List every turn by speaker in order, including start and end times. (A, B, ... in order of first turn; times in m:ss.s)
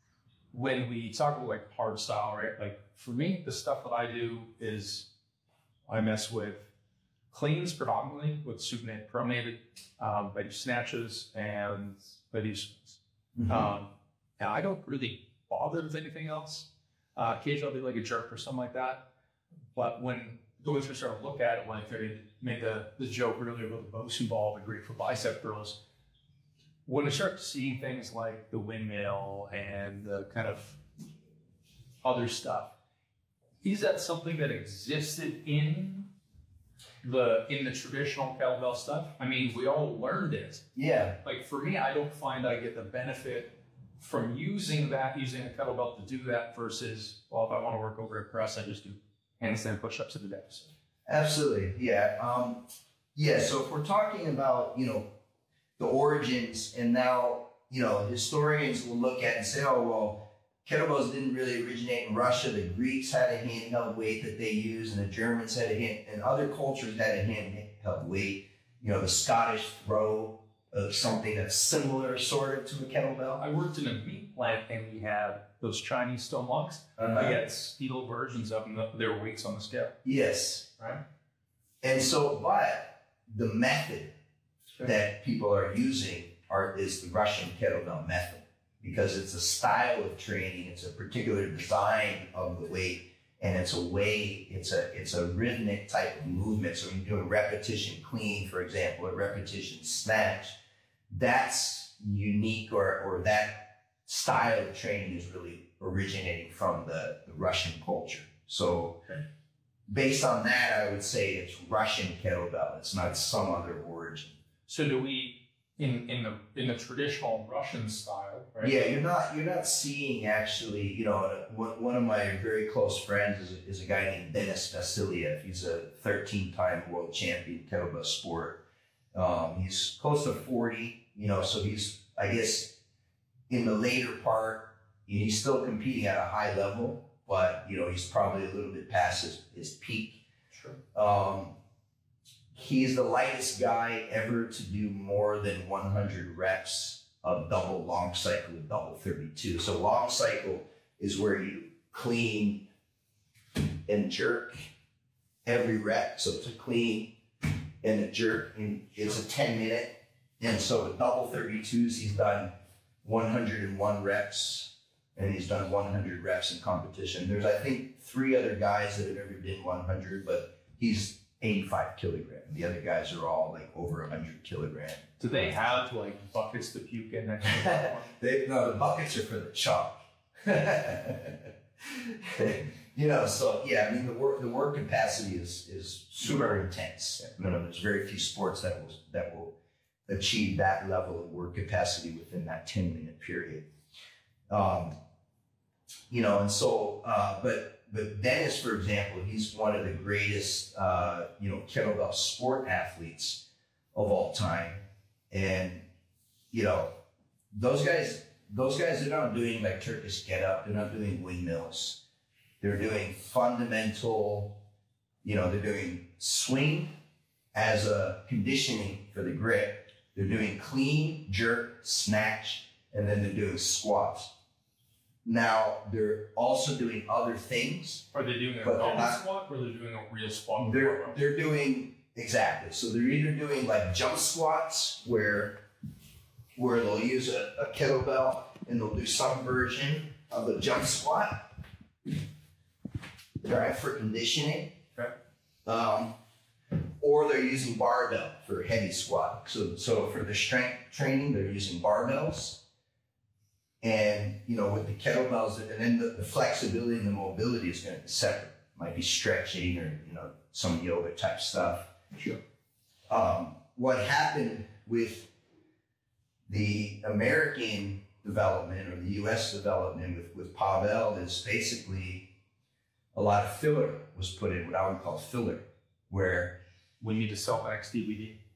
0:00.5-0:05.1 A
0:05.9-0:06.7 A
0:07.3-0:19.0 A
0:13.4-0:13.7 B
0:19.8-0:25.8 A
0:26.9-0:30.8 A
0:32.0-0:32.7 A
0:33.6-0:36.1 A
0:37.0-0:40.6 A
0:40.8-0:41.2 B
0:41.2-0:50.7 A
0:51.1-0:55.1 B
0:55.8-1:13.4 B
1:13.4-1:20.0 A
1:17.0-1:17.4 B
1:20.0-1:20.7 B
1:21.8-1:24.1 B
1:24.8-1:40.6 B
1:41.1-1:49.0 B
1:49.9-1:54.4 B
1:54.7-1:58.8 A
1:58.6-2:08.6 B
2:09.1-2:12.8 B
2:13.5-2:20.2 B
2:20.5-2:20.8 A
2:20.9-2:21.6 B
2:22.6-2:32.7 B
2:33.6-2:34.7 B
2:35.4-2:37.2 B
2:37.8-2:55.8 B
2:55.2-2:58.1 A
2:57.4-3:09.6 B
3:10.1-3:13.7 B
3:14.5-3:14.9 B
3:16.1-3:25.9 B
3:26.5-3:27.0 B
3:27.5-3:32.0 B
3:32.6-3:34.6 B
3:35.2-3:36.9 B
3:37.5-3:44.3 B
3:45.2-3:48.1 B
3:48.1-3:51.2 A
3:48.6-3:49.2 B
3:50.6-3:55.6 B
3:56.6-4:01.6 B
4:03.4-4:04.8 B
4:05.7-4:06.1 B
4:07.0-4:12.6 B
4:13.8-4:22.0 B
4:22.1-4:22.4 A
4:23.1-4:25.3 B
4:26.5-4:32.3 B
4:33.1-4:36.6 B
4:37.0-4:38.4 A